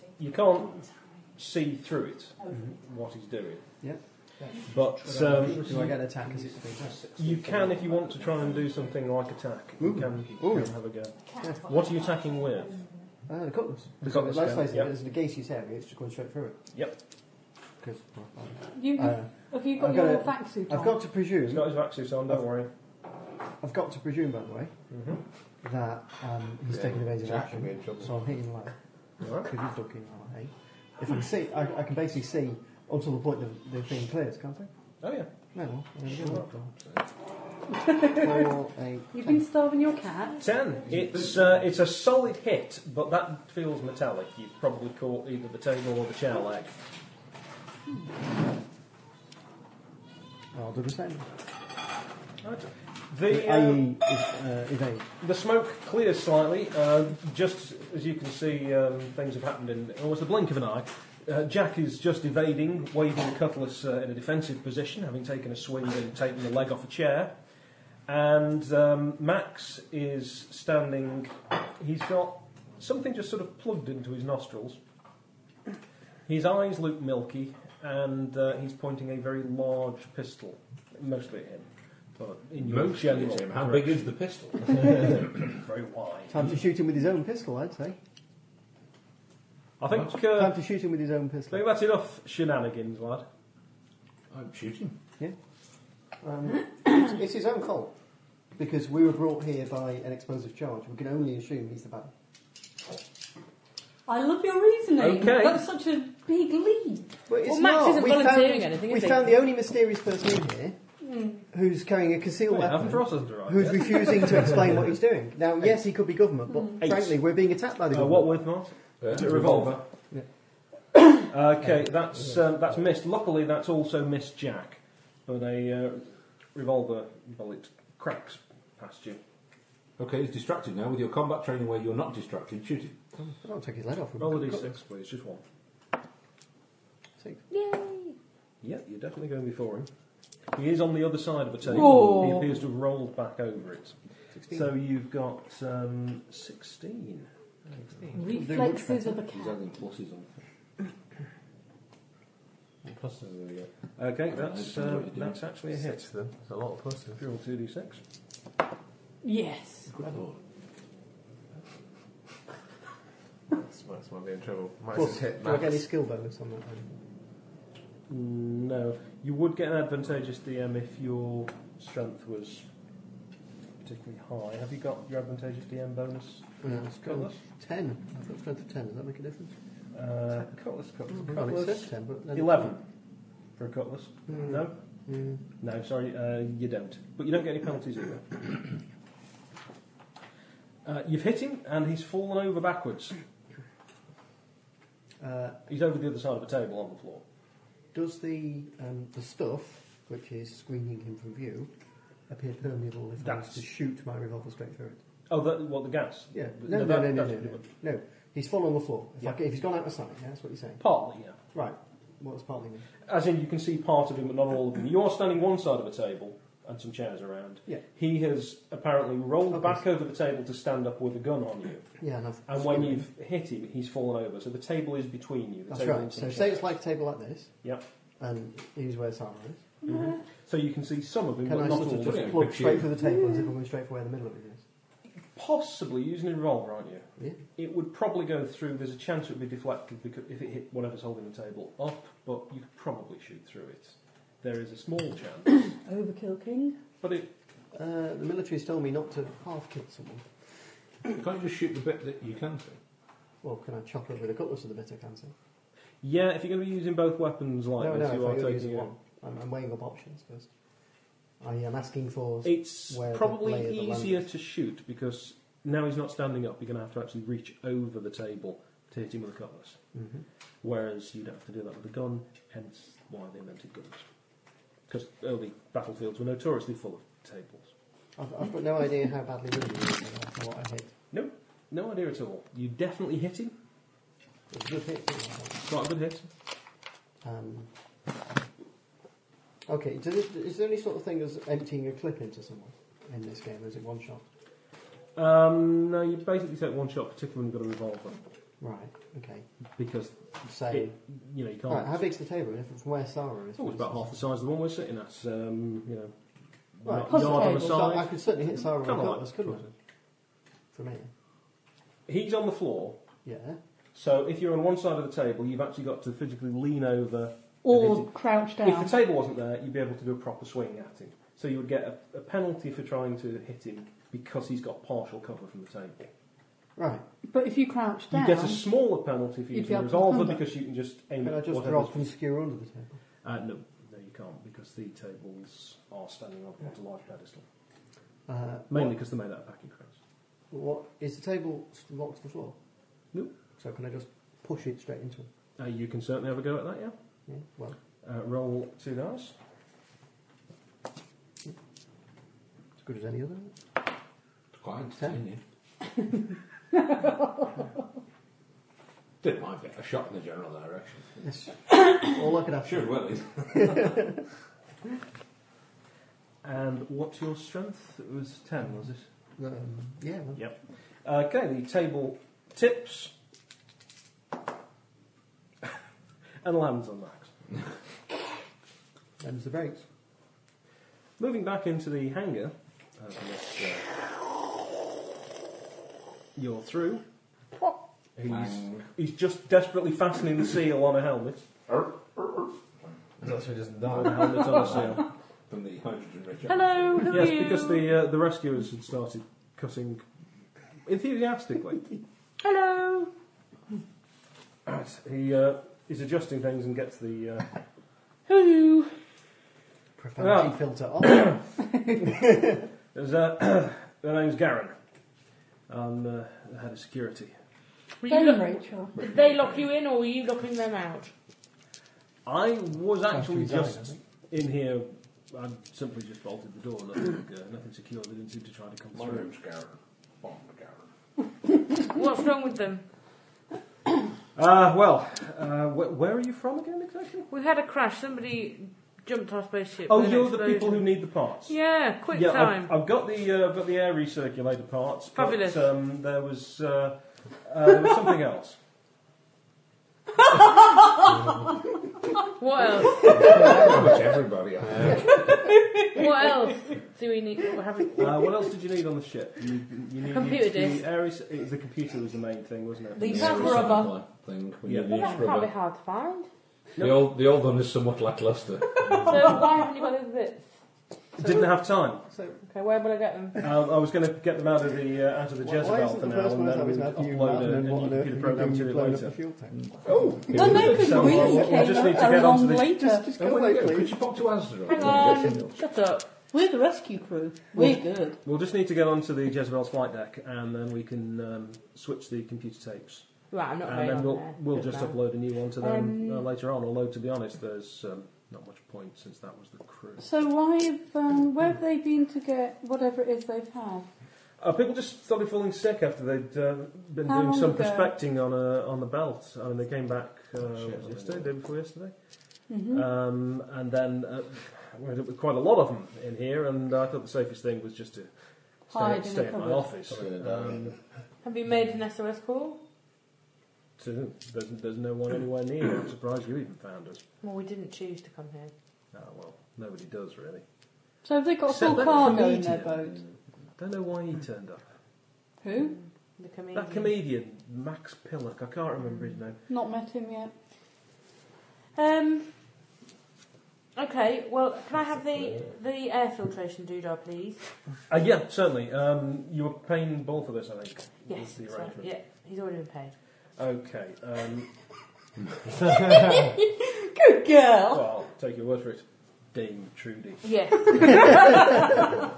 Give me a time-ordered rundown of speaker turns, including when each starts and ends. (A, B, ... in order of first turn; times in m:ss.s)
0:00.2-0:03.6 A
0:03.8-0:04.6 B
0:04.7-0:06.1 A
0:04.7-0:08.9 C
0:05.2-0:07.2 B
0:07.2-0:12.8 A
0:09.8-0:10.8 B
0:11.4-0:11.7 B
0:13.3-0:16.6 B
0:14.0-0:14.9 A
0:17.8-0:21.7 B
0:18.8-0:21.0 D
0:21.5-0:22.7 A
0:23.6-0:24.7 B
0:24.9-0:25.2 A
0:25.6-0:28.8 B
0:26.7-0:28.2 E
0:29.2-0:29.5 A
0:29.4-0:34.7 B
0:35.0-0:35.3 A
0:35.5-0:36.7 B
0:36.1-0:36.5 A
0:36.3-0:37.0 C
0:37.8-0:38.5 D
0:38.1-0:39.4 B
0:39.1-0:40.4 D
0:40.4-0:46.7 A
0:50.5-0:51.3 B
0:52.4-0:53.9 A
0:53.3-0:55.1 B
0:55.2-1:07.4 A
1:08.1-1:14.8 A
1:16.3-1:24.1 A
1:22.6-1:25.4 C
1:24.8-1:26.5 A
1:26.3-1:28.0 B
1:29.8-1:30.6 A
1:30.2-1:31.7 B
1:31.5-1:33.2 A
1:34.3-1:35.0 C
1:36.2-1:37.9 B
1:38.6-1:42.1 B
1:44.1-1:47.1 D
1:45.0-1:45.6 A
1:47.3-1:50.8 B
1:47.5-1:49.4 F
1:51.0-1:51.4 D
1:51.5-1:58.5 B
1:52.5-1:54.6 A
1:56.8-1:57.2 A
1:57.9-1:59.8 A
1:59.0-1:59.8 C
2:01.3-2:09.2 A
2:10.0-2:13.0 C
2:13.2-2:14.8 B
2:14.2-2:15.4 A
2:17.5-2:18.2 F
2:18.6-2:19.9 A
2:20.5-2:24.0 A
2:21.7-2:22.5 F
2:21.9-2:22.2 D
2:24.3-2:24.7 B
2:24.5-2:27.3 A
2:28.1-2:29.6 D
2:28.2-2:29.2 B
2:29.2-2:30.3 C
2:32.8-2:33.7 E
2:34.0-2:36.1 A
2:34.3-2:35.4 C
2:35.7-2:37.2 E
2:37.2-2:38.0 A
2:39.2-2:39.9 D
2:39.9-2:40.4 C
2:43.5-2:45.8 E
2:44.9-2:46.9 B
2:48.1-2:52.7 A
2:53.8-2:57.4 A
2:56.6-2:59.5 B
2:59.9-3:02.8 A
3:01.1-3:02.8 B
3:03.6-3:04.8 A
3:04.3-3:05.4 B
3:05.6-3:08.6 A
3:10.8-3:13.2 A
3:15.2-3:15.6 B
3:15.7-3:17.2 A
3:17.9-3:21.7 B
3:22.3-3:25.0 B
3:23.2-3:23.6 A
3:25.3-3:27.6 A
3:26.3-3:30.8 B
3:30.8-3:31.4 A
3:31.5-3:32.8 B
3:33.1-3:41.9 A
3:39.5-3:39.8 B
3:42.0-3:43.1 B
3:42.5-3:46.7 A
3:45.7-3:47.5 B
3:48.2-3:49.6 B
3:49.9-3:52.5 A
3:51.4-3:54.6 B
3:51.6-3:53.0 C
3:55.4-4:05.7 A
4:05.8-4:06.8 D
4:07.0-4:07.3 A
4:07.7-4:10.2 B
4:11.1-4:12.8 C
4:13.4-4:15.3 B
4:16.0-4:18.9 A
4:17.8-4:20.5 B
4:21.4-4:24.3 B
4:22.4-4:29.8 A
4:29.9-4:30.2 B
4:30.6-4:34.0 A
4:34.9-4:37.7 A
4:38.2-4:40.9 B
4:41.1-4:43.5 A
4:44.5-4:45.6 B
4:45.6-4:46.3 A
4:47.2-4:47.7 B
4:49.7-4:54.2 B
4:55.2-4:58.2 A
4:58.6-4:59.5 B
4:59.8-5:02.0 A
5:00.4-5:01.0 B
5:01.7-5:04.2 B
5:03.6-5:06.1 A
5:06.8-5:09.7 A
5:06.8-5:09.7 B
5:07.1-5:07.9 D
5:10.7-5:11.1 B
5:12.1-5:13.0 A
5:13.2-5:13.6 B
5:14.0-5:26.1 A
5:17.6-5:19.0 D
5:26.8-5:27.0 B
5:27.3-5:28.7 D
5:28.1-5:32.1 A
5:29.5-5:30.4 D
5:31.2-5:33.0 B
5:33.2-5:37.4 A
5:38.3-5:39.0 B
5:38.7-5:40.0 A
5:40.5-5:42.6 B
5:43.6-5:45.3 B
5:45.6-5:47.0 A
5:47.3-5:47.8 B
5:48.0-5:49.4 A
5:52.8-5:53.5 B
5:54.6-5:55.4 C
5:56.8-5:57.5 D
5:59.2-6:01.1 C
6:01.2-6:02.9 B
6:02.6-6:04.0 C
6:03.5-6:04.1 B
6:06.4-6:09.1 A
6:09.4-6:10.4 B
6:10.4-6:13.1 A
6:16.4-6:17.3 A
6:19.2-6:19.8 B
6:21.2-6:23.8 A
6:26.4-6:27.0 A
6:28.2-6:31.4 A
6:28.2-6:28.9 C
6:31.7-6:32.5 C
6:33.2-6:34.6 E
6:33.8-6:37.2 C
6:33.9-6:35.0 A
6:36.5-6:37.8 F
6:37.1-6:40.0 A
6:40.9-6:41.8 A
6:42.4-6:43.1 F
6:44.7-6:47.5 A
6:48.3-6:48.9 F
6:50.0-6:51.4 B
6:50.2-6:51.4 A
6:52.0-6:52.6 B
6:52.9-6:54.8 A
6:55.7-6:57.4 A
6:58.0-7:01.1 F
6:58.1-6:58.9 D
6:59.0-6:59.7 C
7:02.3-7:09.3 A
7:03.1-7:04.0 B
7:08.9-7:10.9 C
7:11.8-7:12.8 F
7:14.4-7:17.3 A
7:17.3-7:20.9 F
7:19.9-7:21.6 A
7:21.5-7:22.8 F
7:22.1-7:28.6 A
7:25.2-7:25.6 F
7:32.3-7:33.7 F
7:33.0-7:35.5 C
7:35.8-7:38.3 F
7:38.0-7:43.6 A
7:40.1-7:40.8 F
7:43.0-7:44.0 F
7:43.0-7:43.9 D
7:43.0-7:45.5 C
7:44.6-7:45.0 A
7:44.9-7:46.3 F
7:46.8-7:47.1 A
7:46.8-7:49.4 C
7:49.0-7:50.4 F
7:51.2-7:52.0 A
7:51.2-7:52.4 B
7:52.4-7:53.4 F
7:53.4-7:59.2 A
7:55.4-7:59.6 B
7:59.6-8:01.7 C
8:00.3-8:03.1 D
8:00.3-8:02.9 A
8:01.3-8:02.2 B
8:02.8-8:04.0 B
8:03.2-8:05.6 C
8:04.7-8:06.1 F
8:06.3-8:08.2 D
8:08.2-8:13.1 A
8:13.3-8:16.3 F
8:13.6-8:20.1 A
8:20.0-8:23.9 D
8:24.4-8:38.1 A
8:27.1-8:28.0 D
8:30.5-8:31.3 C
8:32.5-8:32.9 D
8:38.7-8:40.7 A
8:38.7-8:39.8 D
8:39.9-8:40.7 E
8:41.2-8:42.6 F
8:43.8-8:47.0 A
8:47.2-8:48.5 F
8:48.9-8:50.4 A
8:51.0-8:53.0 D
8:51.4-8:53.1 A
8:53.6-8:54.6 A
8:55.4-8:55.8 D
8:55.6-8:57.0 F
8:56.5-8:59.4 A
8:59.5-9:00.3 D
9:01.8-9:02.3 F
9:03.8-9:07.4 F
9:07.9-9:11.9 A
9:11.1-9:12.9 F
9:13.4-9:14.5 A
9:15.8-9:17.9 D
9:17.7-9:21.2 A
9:20.2-9:21.7 F